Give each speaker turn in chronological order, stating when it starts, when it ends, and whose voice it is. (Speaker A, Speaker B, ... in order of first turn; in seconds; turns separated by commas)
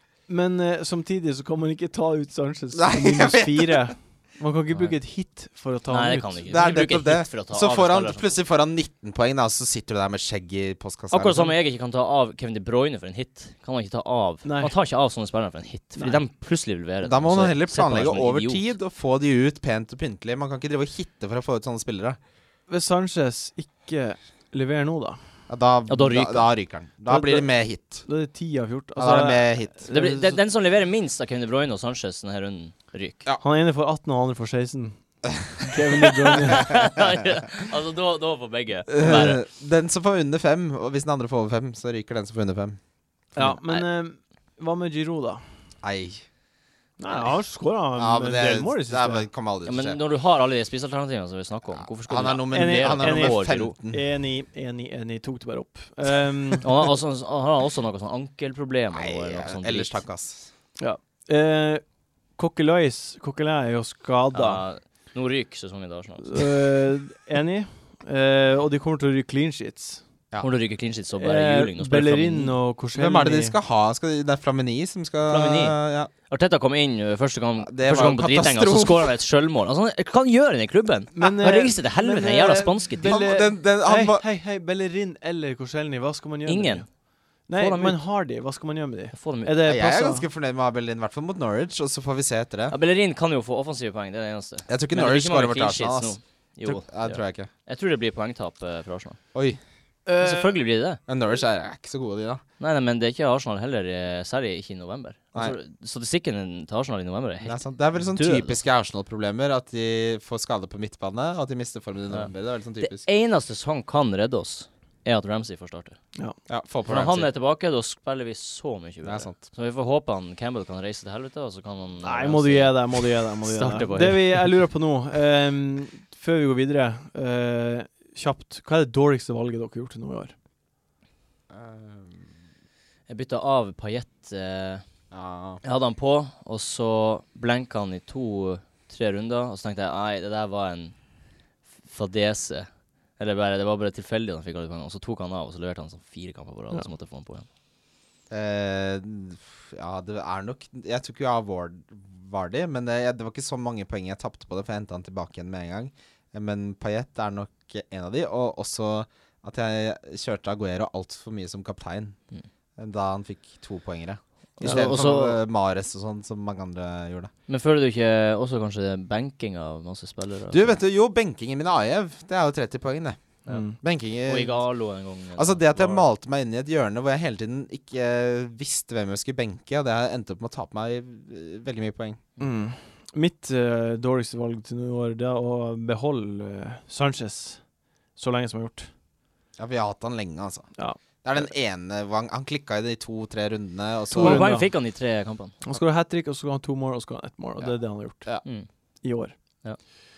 Speaker A: 0.3-6.5, Speaker B: 2.7-3.9, Speaker C: 5.9-8.3, Speaker B: 6.5-11.5, Speaker C: 11.1-18.6, Speaker A: 14.4-14.7, Speaker A: 16.0-16.2, Speaker B: 17.0-22.2, Speaker A: 22.7-25.2, Speaker B: 25.5-28.0, Speaker C: 25.9-26.5, Speaker A: 27.1-27.5, Speaker A: 28.0-30.4, Speaker B: 28.9-29.9, Speaker C: 29.9-33.2, Speaker A: 33.4-35.0, Speaker A: 35.6-36.7, Speaker C: 36.5-39.4, Speaker B: 38.9-42.8, Speaker C: 43.4-43.8, Speaker A: 43.4-45.4, Speaker B: 45.8-46.2, Speaker A: 47.0-49.3, Speaker B: 48.0-50.0, Speaker C: 49.6-53.7, Speaker B: 52.0-54.0, Speaker A: 52.5-56.7, Speaker C: 56.6-60.0, Speaker B: 58.9-60.5, Speaker A: 60.8-61.8, Speaker A: 62.4-64.6, Speaker C: 64.3-66.5, Speaker A: 66.2-70.0, Speaker C: 70.4-72.5, Speaker A: 71.2-73.6, Speaker B: 72.9-76.1, Speaker C: 75.3-75.8, Speaker C: 76.3-83.1, Speaker B: 77.6-79.1, Speaker A: 81.2-86.9, Speaker B: 83.0-84.2, Speaker C: 86.5-86.9, Speaker C: 87.5-88.0, Speaker A: 87.5-90.2, Speaker C: 89.1-89.6, Speaker B: 89.6-92.7, Speaker C: 92.7-99.2, Speaker B: 94.7-97.5, Speaker B: 99.3-99.6, Speaker A: 100.0-100.6, Speaker C: 100.2-101.0, Speaker B: 101.1-102.4, Speaker C: 102.6-108.6, Speaker B: 107.4-113.0, Speaker C: 112.8-116.0, Speaker B: 116.5-117.3, Speaker C: 116.9-124.5, Speaker B: 119.0-119.4, Speaker A: 122.0-130.3, Speaker B: 131.5-132.3, Speaker C: 133.1-134.8, Speaker B: 135.1-135.6, Speaker C: 135.6-140.9, Speaker C: 141.8-147.5, Speaker B: 148.3-162.2, Speaker B: 162.8-167.3, Speaker C: 164.6-165.4, Speaker A: 164.6-164.9, Speaker C: 167.5-170.7, Speaker B: 170.5-174.6, Speaker A: 173.5-173.8, Speaker C: 174.2-176.1, Speaker B: 175.3-182.2, Speaker A: 182.4-187.6, Speaker A: 188.2-188.9, Speaker B: 189.6-190.7, Speaker A: 190.8-191.5, Speaker B: 191.2-194.5, Speaker A: 194.1-194.7, Speaker C: 194.1-195.5, Speaker A: 195.6-198.3, Speaker B: 197.6-198.4, Speaker A: 199.0-199.3